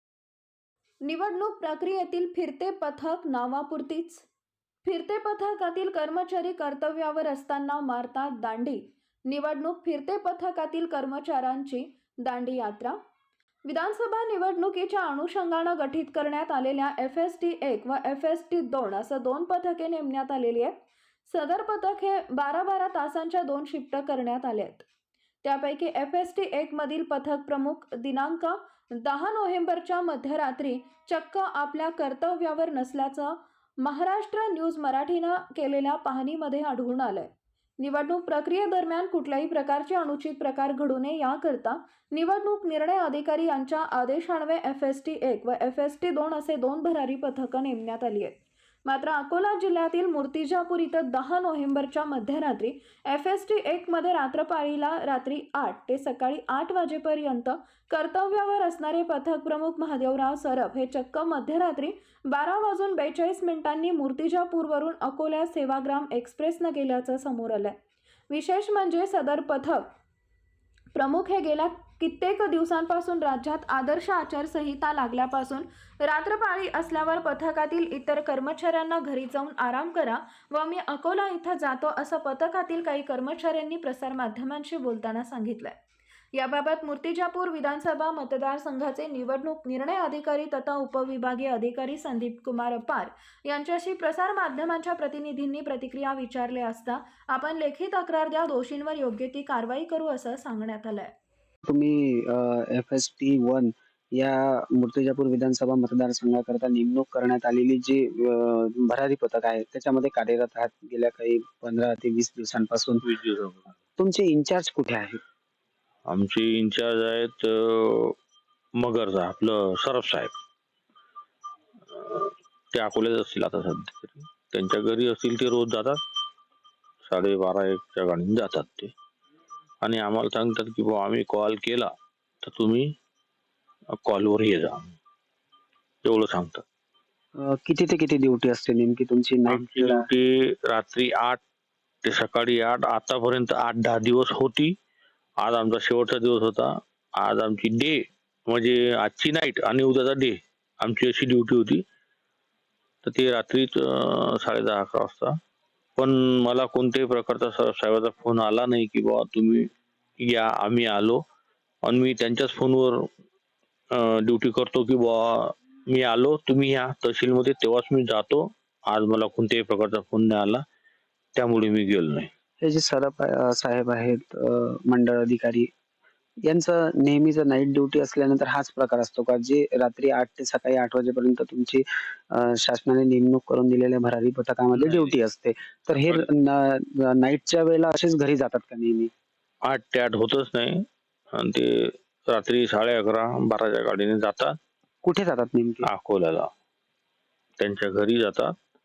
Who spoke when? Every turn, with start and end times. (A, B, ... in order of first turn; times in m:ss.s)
0:01.0-0:04.2 A
0:04.8-0:13.0 A
0:13.6-0:20.7 A
0:21.2-0:24.8 A
0:25.4-1:07.8 A
1:08.3-1:09.9 A
1:10.9-1:25.8 A
1:26.3-1:41.1 A
1:41.6-1:53.0 B
1:53.0-1:53.7 C
1:54.0-1:55.2 B
1:56.1-1:58.2 C
1:58.8-2:00.3 C
2:01.9-2:06.0 C
2:07.0-2:08.9 C
2:09.8-2:11.9 C
2:12.4-2:12.9 C
2:14.0-2:14.9 C
2:16.0-2:16.6 C
2:17.4-2:20.0 B
2:19.5-2:21.4 C
2:22.0-2:24.7 C
2:25.4-2:31.8 C
2:33.0-2:35.3 C
2:36.0-2:39.6 C
2:40.2-2:41.2 C
2:41.8-2:43.0 C
2:43.9-2:50.6 C
2:51.3-2:52.3 C
2:52.6-2:55.7 B
2:56.5-3:09.1 B
3:04.7-3:05.1 C
3:09.6-3:10.7 C
3:11.3-3:11.7 C
3:12.3-3:14.6 C
3:15.0-3:15.8 B
3:15.9-3:16.5 C
3:17.6-3:18.5 C